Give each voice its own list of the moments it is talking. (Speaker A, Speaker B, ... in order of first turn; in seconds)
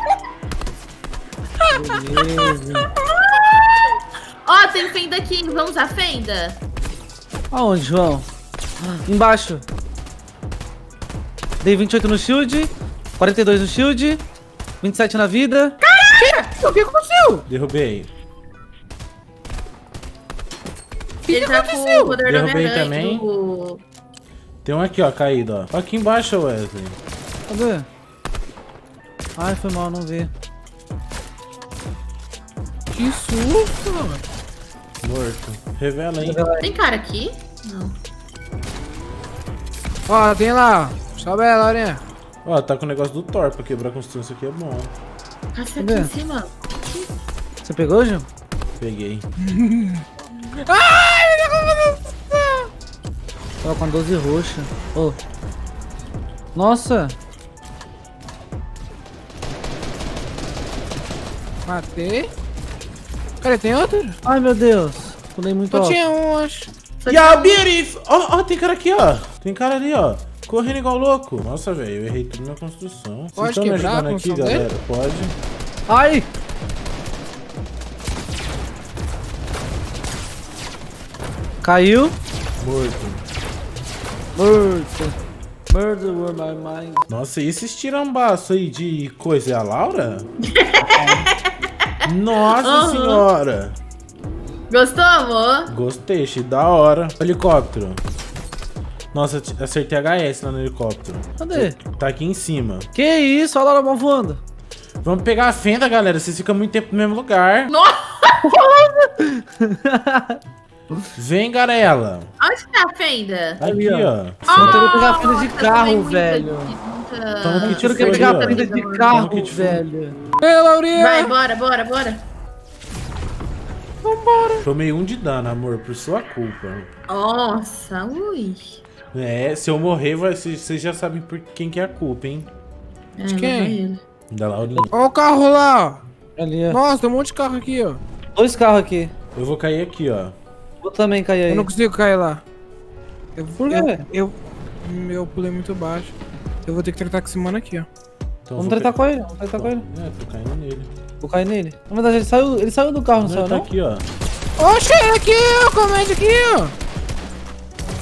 Speaker A: 1.6-2.5, 15.8-17.4, 21.3-22.2, 32.9-34.2, 40.1-42.0, 49.4-50.0, 50.6-52.7, 61.7-62.3, 63.4-64.2, 65.7-66.7, 73.3-74.7, 120.4-121.3, 124.0-124.6, 133.3-133.8, 134.9-136.0, 136.7-138.0, 141.5-142.4, 143.3-146.1, 146.7-147.9, 154.6-156.7
Speaker B: 1.7-2.9, 7.5-8.3, 9.1-9.6, 11.6-14.2, 14.8-15.8, 27.5-27.9, 29.4-30.3, 36.2-36.7, 45.8-46.1, 47.6-48.3, 53.6-55.2, 56.5-57.2, 64.2-66.0, 75.9-76.3, 81.6-82.2, 84.3-85.2, 85.7-87.0, 101.4-101.8, 102.9-104.4, 108.5-110.4, 113.6-116.7, 117.6-120.2, 136.4-136.8, 138.3-139.1, 140.8-141.7, 143.7-144.1, 148.6-149.8, 151.2-153.7
Speaker C: 4.4-6.6, 21.3-23.8, 36.6-38.0, 45.5-47.1, 67.0-67.7, 90.5-91.3, 92.6-93.2, 94.7-95.7, 107.7-108.8, 112.4-113.6, 114.5-119.2, 121.0-122.2, 127.1-128.8, 133.2-134.0
Speaker D: 17.5-18.1, 22.2-23.3, 24.6-27.0, 35.0-36.5, 42.4-44.9, 48.8-49.3, 67.1-75.3, 82.6-83.2, 87.1-90.3, 92.0-93.8, 95.7-98.0, 99.1-102.9, 105.0-107.7, 111.2-112.3, 113.6-114.9, 117.4-119.8, 124.6-126.9, 129.1-132.5, 134.3-134.9, 139.3-140.3, 148.5-150.9, 153.2-154.1